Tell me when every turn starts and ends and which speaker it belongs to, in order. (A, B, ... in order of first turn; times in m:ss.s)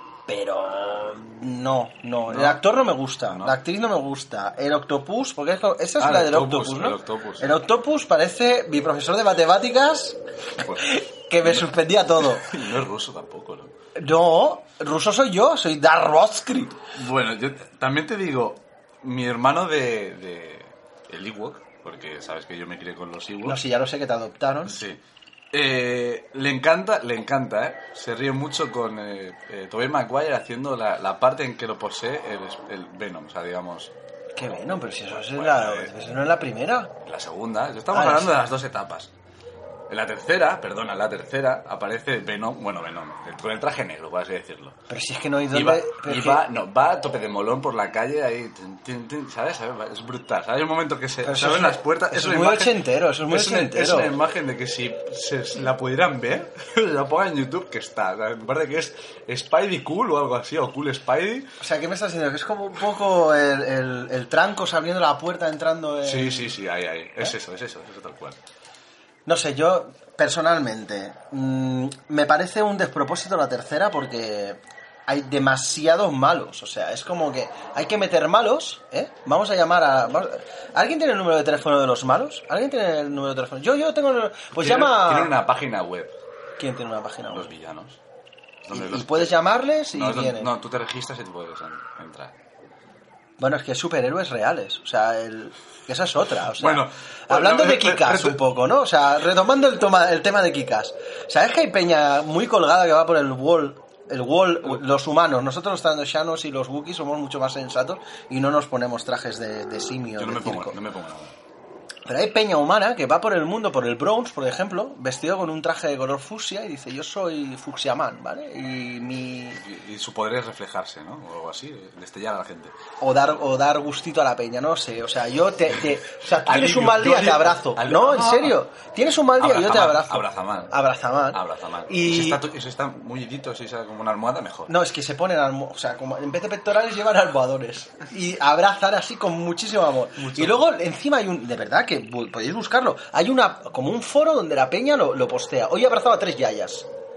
0:00.3-0:12.5 A
0:02.3-0:02.7 B
0:03.2-0:03.6 B
0:06.0-0:07.6 B
0:10.6-0:10.9 B
0:11.4-0:13.7 B
0:14.0-0:16.8 A
0:16.9-0:23.6 B
0:23.4-0:24.8 A
0:24.7-0:25.0 B
0:25.5-0:33.9 B
0:34.4-0:36.9 A
0:35.1-0:35.9 B
0:37.0-0:39.1 B
0:37.9-0:38.3 A
0:39.9-0:44.8 B
0:44.9-0:46.4 A
0:45.5-1:01.5 B
0:51.2-0:54.1 A
1:01.6-1:06.6 A
1:06.0-1:08.4 B
1:09.3-1:25.3 A
1:24.6-1:26.1 B
1:26.6-1:27.5 A
1:27.3-1:28.0 B
1:28.6-1:29.4 B
1:28.7-1:30.5 A
1:29.9-1:32.4 B
1:33.4-1:50.8 A
1:36.6-1:38.4 B
1:50.2-1:51.3 B
1:52.1-1:59.6 A
1:59.6-2:02.8 B
2:03.0-2:12.4 A
2:06.4-2:08.6 B
2:09.4-2:10.8 B
2:11.3-2:14.7 B
2:14.7-2:26.9 A
2:20.2-2:20.6 B